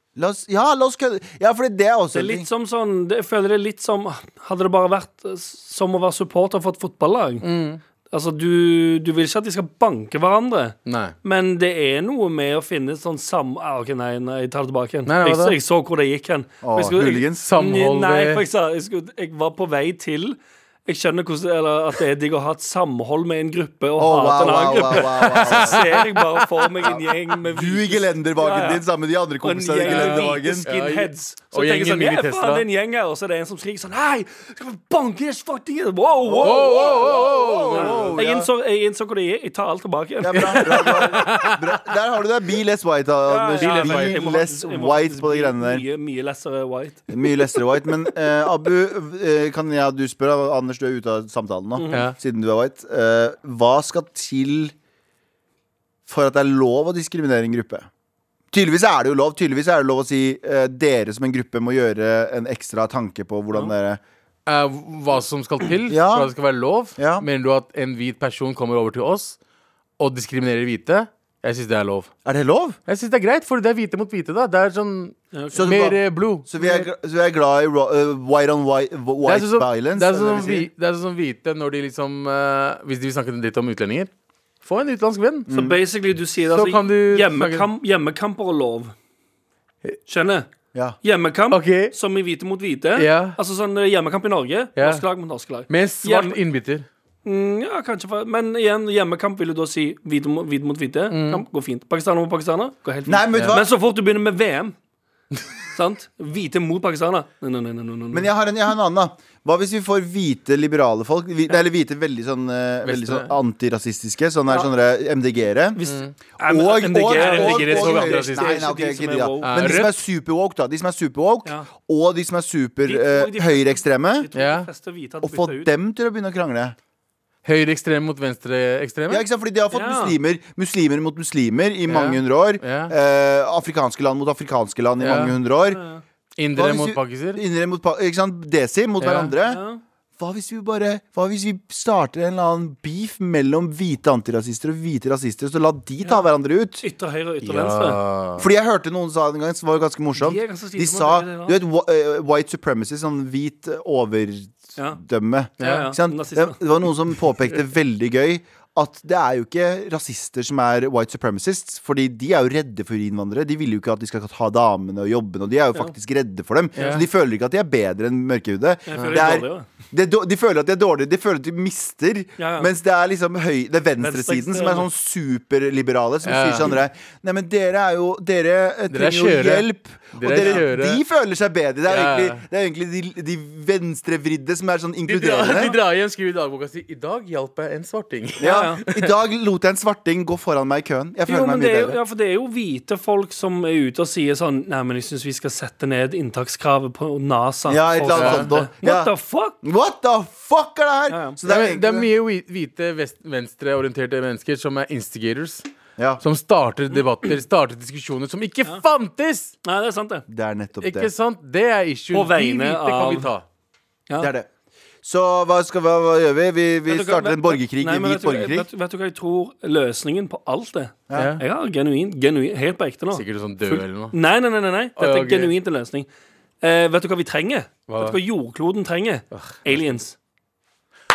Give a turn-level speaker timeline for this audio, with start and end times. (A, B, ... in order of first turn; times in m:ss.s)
0:00.2-0:02.5 A
0:02.1-0:07.4 B
0:07.4-0:07.8 C
0:08.1-0:28.8 B
0:10.9-0:11.1 C
0:15.1-0:15.6 C
0:16.6-0:17.5 A
0:17.4-0:18.4 C
0:24.0-0:25.9 A
0:24.9-0:26.4 C
0:26.8-0:30.7 A
0:29.4-0:41.2 B
0:29.8-0:32.6 C
0:36.2-0:38.5 A
0:36.4-0:38.2 C
0:40.2-0:45.8 A
0:40.4-0:41.8 C
0:43.3-0:48.0 B
0:43.6-0:44.2 C
0:47.1-0:54.7 A
0:51.8-0:52.1 B
0:56.1-0:57.9 A
0:58.5-1:04.0 A
1:04.5-1:09.4 C
1:05.9-1:06.3 A
1:07.0-1:07.2 A
1:10.0-1:12.1 C
1:12.2-1:12.8 A
1:12.9-1:16.5 C
1:15.3-1:15.7 B
1:15.5-1:20.7 A
1:16.6-1:16.9 B
1:19.2-1:24.1 C
1:24.6-1:25.5 C
1:25.5-1:25.8 A
1:25.5-1:28.9 B
1:26.5-1:27.7 C
1:30.1-1:30.5 B
1:31.0-1:36.4 B
1:31.5-1:31.9 C
1:33.0-1:33.4 C
1:34.8-1:35.0 C
1:35.7-1:36.9 C
1:37.2-1:44.8 B
1:41.1-1:41.4 C
1:43.1-1:43.7 A
1:45.7-1:48.3 B
1:48.1-1:55.8 A
1:52.8-1:53.3 C
1:55.8-1:59.9 B
1:55.9-1:56.1 C
1:56.4-2:04.3 A
1:57.1-1:58.6 C
1:59.4-1:59.9 C
2:02.9-2:05.7 B
2:04.4-2:04.7 C
2:05.2-2:06.8 A
2:07.4-2:09.3 C
2:09.1-2:15.8 A
2:09.7-2:10.2 B
2:11.9-2:12.9 C
2:15.0-2:15.4 C
2:15.7-2:16.0 B
2:16.4-2:17.4 C
2:16.6-2:19.6 A
2:19.0-2:19.4 C
2:19.4-2:19.8 B
2:20.2-2:26.8 A
2:26.8-2:28.0 B
2:27.4-2:28.5 C
2:28.4-3:05.8 A
2:30.2-2:31.6 B
2:35.6-2:35.9 C
2:35.6-2:36.6 B
2:46.8-2:47.0 B
2:46.8-2:47.0 C
2:48.9-2:49.7 B
2:49.0-2:49.2 C
2:52.4-2:52.7 B
2:54.0-2:54.9 B
2:56.2-2:56.8 C
2:58.9-3:01.0 C
3:00.3-3:00.6 B
3:01.9-3:02.4 C
3:05.1-3:09.1 C
3:08.4-3:12.0 A
3:08.4-3:08.8 B
3:11.3-3:19.6 B
3:17.7-3:22.1 A
3:18.2-3:18.5 C
3:21.1-3:21.4 B
3:21.5-3:25.6 C
3:26.2-3:29.5 C
3:26.9-3:27.3 B
3:29.6-3:30.2 B
3:30.3-3:31.1 A
3:30.8-3:33.4 C
3:32.1-3:33.3 B
3:34.2-3:34.5 A
3:35.0-3:38.7 A
3:36.9-3:46.1 B
3:41.1-3:41.4 A
3:41.1-3:41.4 C
3:43.1-3:44.2 C
3:45.0-3:45.5 C
3:46.6-3:50.2 B
3:47.9-3:48.2 C
3:49.3-3:49.8 C